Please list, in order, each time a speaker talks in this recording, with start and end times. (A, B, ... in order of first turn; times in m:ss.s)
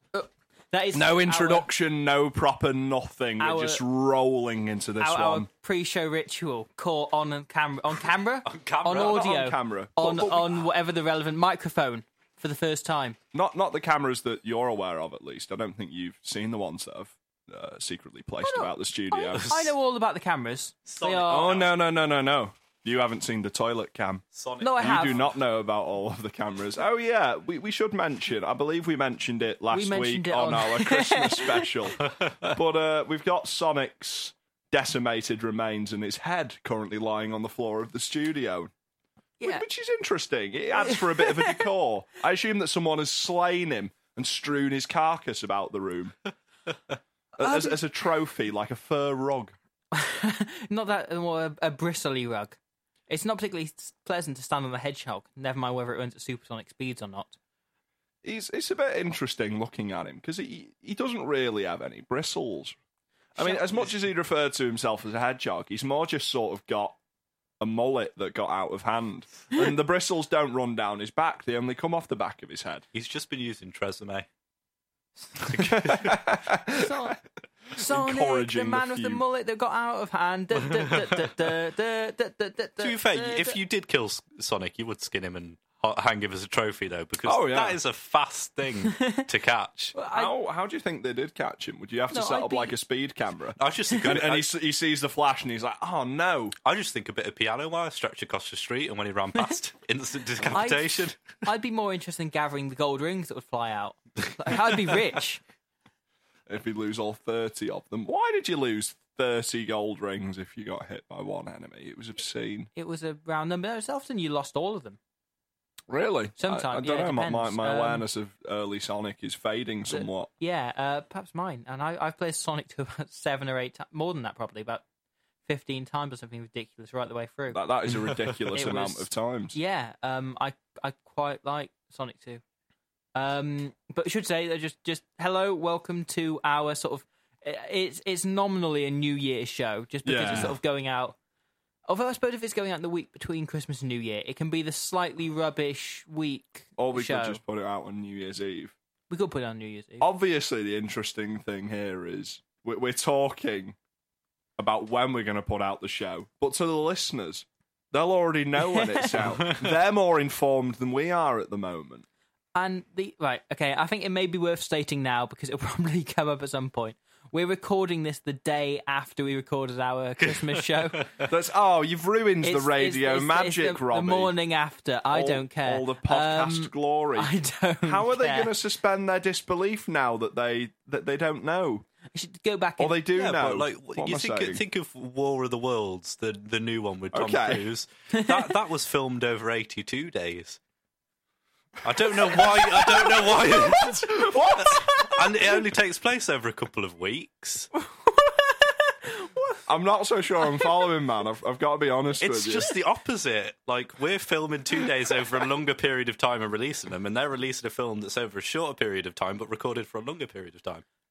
0:00.1-0:01.7 A
0:00.9-0:05.5 B
0:03.4-0:03.8 A
0:05.0-0:13.2 A
0:08.4-0:09.4 C
0:09.0-0:10.6 B
0:13.3-0:19.5 B
0:18.4-0:21.6 A
0:19.3-0:19.7 C
0:20.9-0:21.7 C
0:21.3-0:24.2 B
0:24.3-0:25.3 C
0:24.6-0:25.2 A
0:24.8-0:38.7 B
0:29.7-0:31.8 A
0:32.0-0:32.5 C
0:39.4-0:39.6 A
0:39.4-0:46.2 B
0:40.8-0:41.7 A
0:47.4-0:49.6 B
0:47.4-0:47.8 A
0:49.9-0:52.6 A
0:53.1-0:57.4 A
0:58.2-1:02.8 B
1:03.4-1:03.9 A
1:03.4-1:07.0 B
1:07.6-1:12.8 B
1:12.9-1:14.3 C
1:15.4-1:16.2 C
1:15.4-1:17.1 B
1:16.7-1:17.2 A
1:17.7-1:23.6 A
1:17.8-1:19.2 B
1:20.8-1:21.2 C
1:22.8-1:30.0 C
1:27.2-1:27.8 B
1:29.0-1:29.3 A
1:30.0-1:30.3 A
1:30.1-1:36.6 B
1:32.1-1:32.7 A
1:33.6-1:34.5 C
1:36.6-1:41.4 C
1:40.5-1:45.4 A
1:46.5-1:52.7 B
1:52.8-1:55.0 A
1:55.9-2:00.3 B
1:56.4-1:58.0 A
1:59.9-2:04.8 A
2:05.5-2:07.9 A
2:07.5-2:09.6 B
2:08.5-2:12.4 A
2:13.2-2:21.2 A
2:20.0-2:20.6 B
2:21.9-2:27.4 A
2:26.8-2:28.8 B
2:29.1-2:30.0 A
2:30.0-2:33.8 B
2:34.6-2:42.0 B
2:38.7-2:39.1 A
2:39.3-2:39.7 C
2:42.6-2:51.1 A
2:50.2-2:51.3 C
2:51.3-2:54.3 B
2:52.4-2:58.5 A
2:55.1-3:01.9 B
3:02.1-3:03.0 A
3:02.8-3:04.6 B
3:03.1-3:10.6 C
3:07.1-3:07.7 B
3:08.1-3:08.4 A
3:11.8-3:17.7 C
3:12.1-3:15.1 B
3:18.0-3:19.6 A
3:19.7-3:22.7 B
3:20.6-3:20.8 A
3:22.2-3:30.8 C